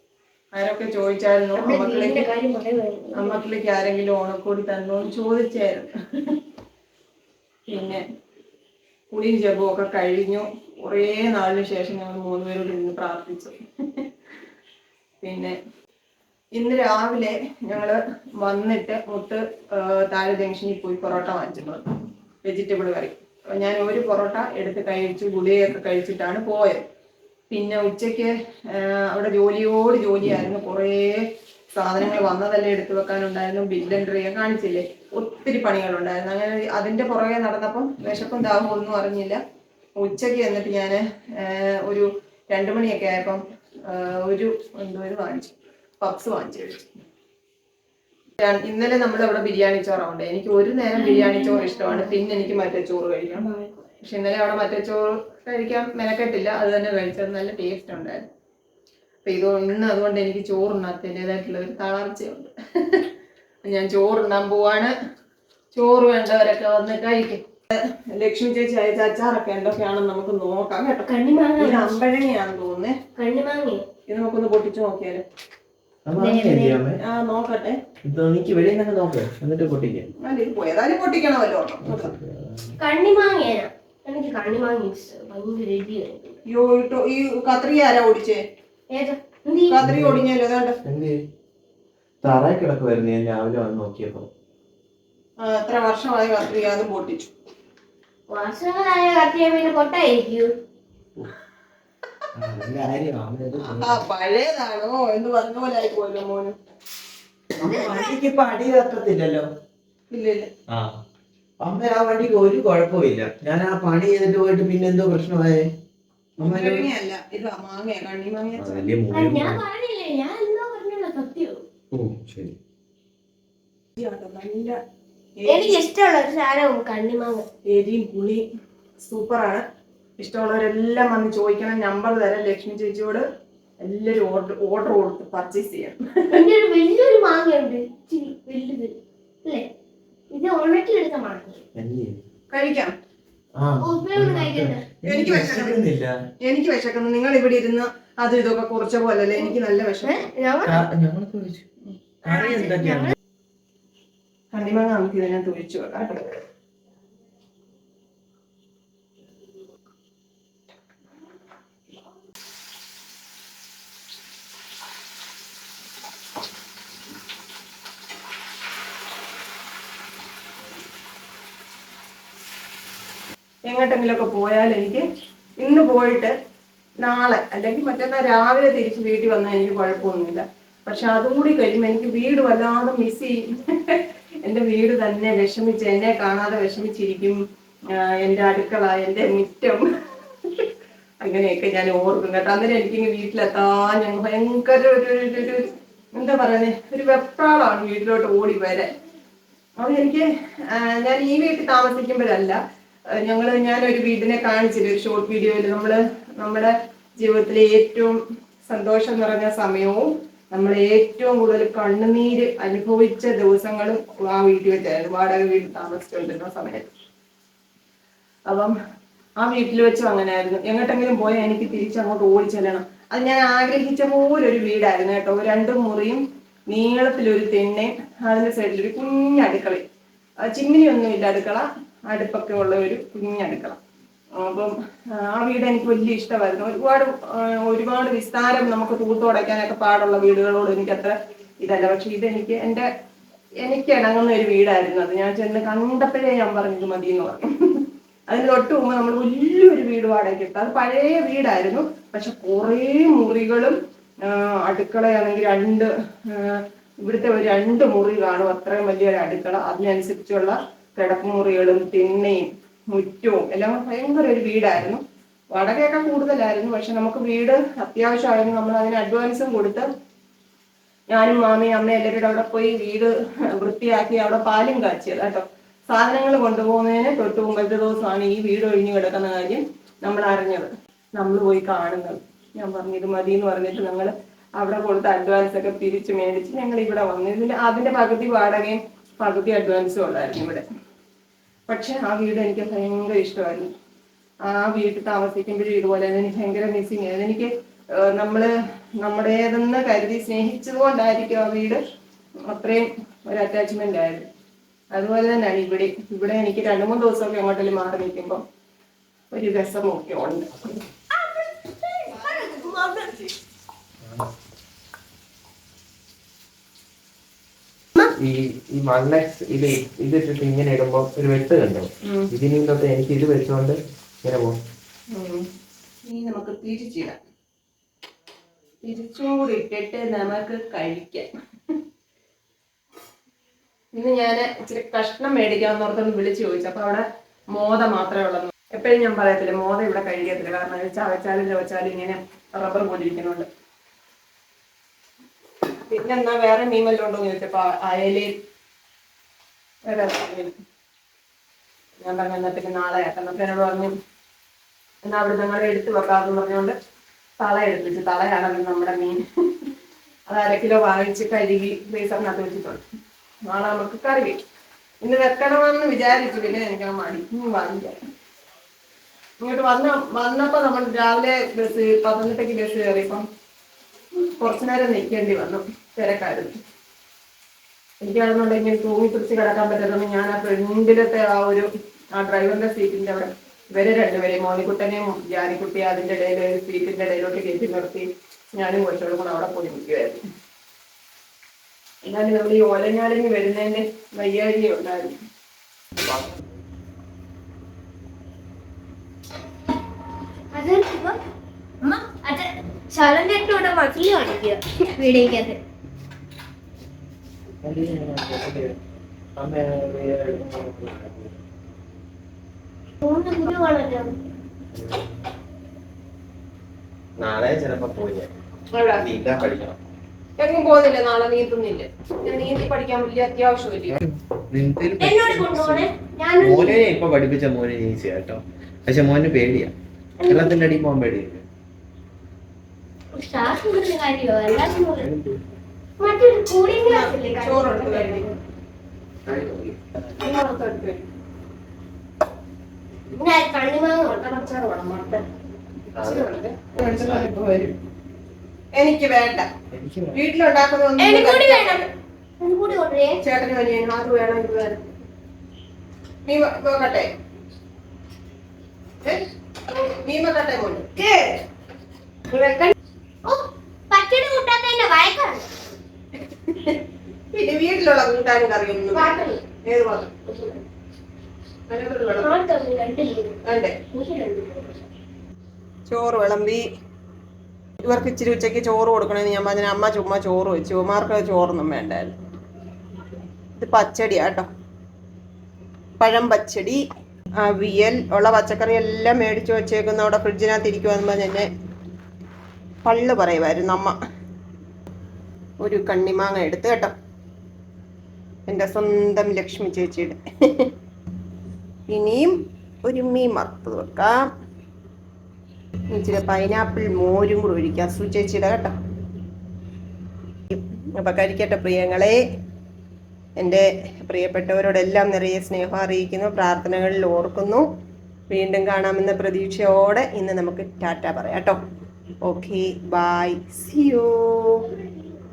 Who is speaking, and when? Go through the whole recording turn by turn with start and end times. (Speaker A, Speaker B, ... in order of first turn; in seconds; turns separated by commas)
Speaker A: 0.5-2.2, Speaker B: 1.6-3.4, Speaker A: 3.1-5.9, Speaker A: 7.7-8.0, Speaker A: 9.1-14.1, Speaker A: 15.2-15.5, Speaker A: 16.6-21.8, Speaker A: 22.4-26.8, Speaker A: 27.5-31.2, Speaker A: 31.7-39.4, Speaker A: 40.0-46.9, Speaker A: 48.4-53.5, Speaker B: 51.0-52.1, Speaker B: 53.3-53.9, Speaker A: 54.0-58.3, Speaker A: 59.2-63.1, Speaker A: 63.6-64.9, Speaker A: 65.7-71.1, Speaker B: 71.1-72.0, Speaker A: 71.6-72.9, Speaker B: 73.2-73.8, Speaker A: 74.1-75.2, Speaker C: 76.0-77.0, Speaker B: 76.2-76.8, Speaker A: 77.0-77.8, Speaker C: 78.0-80.1, Speaker A: 80.2-82.1, Speaker C: 81.8-82.8, Speaker B: 82.8-86.4, Speaker A: 86.5-88.4, Speaker B: 88.9-89.8, Speaker A: 89.7-90.8, Speaker C: 89.8-90.2, Speaker C: 90.8-91.2, Speaker C: 92.2-94.3, Speaker A: 95.4-97.3, Speaker B: 98.3-100.5, Speaker C: 102.3-104.0, Speaker A: 103.6-106.5, Speaker C: 107.6-109.4, Speaker B: 107.7-108.1, Speaker A: 110.1-110.5, Speaker C: 110.7-111.0, Speaker C: 111.6-115.7, Speaker A: 116.4-118.9, Speaker C: 116.4-116.9, Speaker C: 118.6-119.6, Speaker B: 119.1-121.6, Speaker C: 121.9-122.6, Speaker A: 124.0-124.8, Speaker A: 125.4-125.9, Speaker B: 125.5-127.4, Speaker A: 127.7-128.4, Speaker A: 129.0-129.6, Speaker A: 130.2-133.2, Speaker A: 133.8-136.3, Speaker B: 136.3-139.7, Speaker B: 140.3-141.6, Speaker C: 141.8-142.2, Speaker A: 142.5-142.9, Speaker C: 143.6-146.1, Speaker B: 143.8-144.8, Speaker A: 145.0-145.9, Speaker A: 146.4-150.3, Speaker B: 150.0-150.8, Speaker C: 150.6-151.6, Speaker C: 152.2-153.1, Speaker B: 152.3-153.1, Speaker A: 154.5-156.3, Speaker A: 173.7-175.0, Speaker A: 175.6-176.3, Speaker A: 177.0-187.4, Speaker A: 188.0-189.8, Speaker A: 191.2-198.9, Speaker A: 199.8-202.6, Speaker A: 203.2-216.9, Speaker A: 218.5-218.7, Speaker A: 219.4-229.8, Speaker A: 230.5-233.8, Speaker A: 234.4-242.8, Speaker A: 243.6-253.8, Speaker A: 254.3-269.9, Speaker A: 271.1-290.6, Speaker A: 291.7-293.7, Speaker A: 294.4-297.5, Speaker A: 298.0-298.5, Speaker A: 299.0-301.8, Speaker A: 302.5-304.2, Speaker A: 304.9-308.4, Speaker A: 309.3-310.6, Speaker B: 311.1-313.2, Speaker A: 312.3-313.3, Speaker C: 314.0-314.3, Speaker C: 318.0-324.6, Speaker A: 325.1-325.4, Speaker A: 326.1-327.2, Speaker A: 328.8-331.3, Speaker A: 333.9-343.5, Speaker A: 345.9-348.3, Speaker A: 349.9-350.5, Speaker A: 352.0-353.9, Speaker A: 355.0-356.7, Speaker A: 357.4-359.2, Speaker A: 360.3-362.8, Speaker A: 363.5-364.4, Speaker A: 365.0-367.9, Speaker A: 369.4-373.2, Speaker A: 374.4-376.5, Speaker A: 378.0-390.2, Speaker A: 392.0-395.1, Speaker B: 400.5-401.2, Speaker B: 401.8-405.6, Speaker C: 407.6-408.8, Speaker C: 409.4-411.4, Speaker B: 413.0-414.1, Speaker C: 414.7-415.0, Speaker C: 417.2-418.3, Speaker A: 418.7-419.1, Speaker C: 419.0-419.8, Speaker A: 420.4-424.0, Speaker C: 424.0-429.7, Speaker B: 425.0-426.8, Speaker B: 430.2-430.6, Speaker C: 430.2-431.4, Speaker B: 433.1-435.1, Speaker C: 434.9-435.4, Speaker B: 436.0-438.3, Speaker A: 436.9-438.3, Speaker C: 439.3-439.6, Speaker A: 440.1-441.0, Speaker B: 443.1-444.3, Speaker A: 444.0-445.2, Speaker A: 445.9-447.7, Speaker A: 448.8-449.4, Speaker C: 449.7-450.2, Speaker A: 450.1-451.8, Speaker B: 451.0-451.9, Speaker B: 452.4-453.2, Speaker A: 453.2-454.8, Speaker A: 456.2-457.1, Speaker A: 459.0-461.1, Speaker B: 462.3-462.7, Speaker B: 463.2-465.5, Speaker A: 466.3-466.8, Speaker A: 467.3-469.1, Speaker B: 468.9-469.4, Speaker A: 469.6-470.6, Speaker A: 471.7-472.3, Speaker B: 472.2-473.4, Speaker A: 473.4-473.8, Speaker B: 473.9-474.8, Speaker A: 475.9-476.6, Speaker A: 477.8-482.1, Speaker A: 483.6-484.4, Speaker A: 486.0-486.8, Speaker A: 487.4-491.5, Speaker A: 492.8-493.9, Speaker A: 495.6-496.9, Speaker A: 498.5-500.2, Speaker A: 501.9-504.2, Speaker A: 505.9-508.7, Speaker A: 510.5-512.2, Speaker A: 513.4-517.6, Speaker A: 518.3-521.6, Speaker A: 522.2-524.5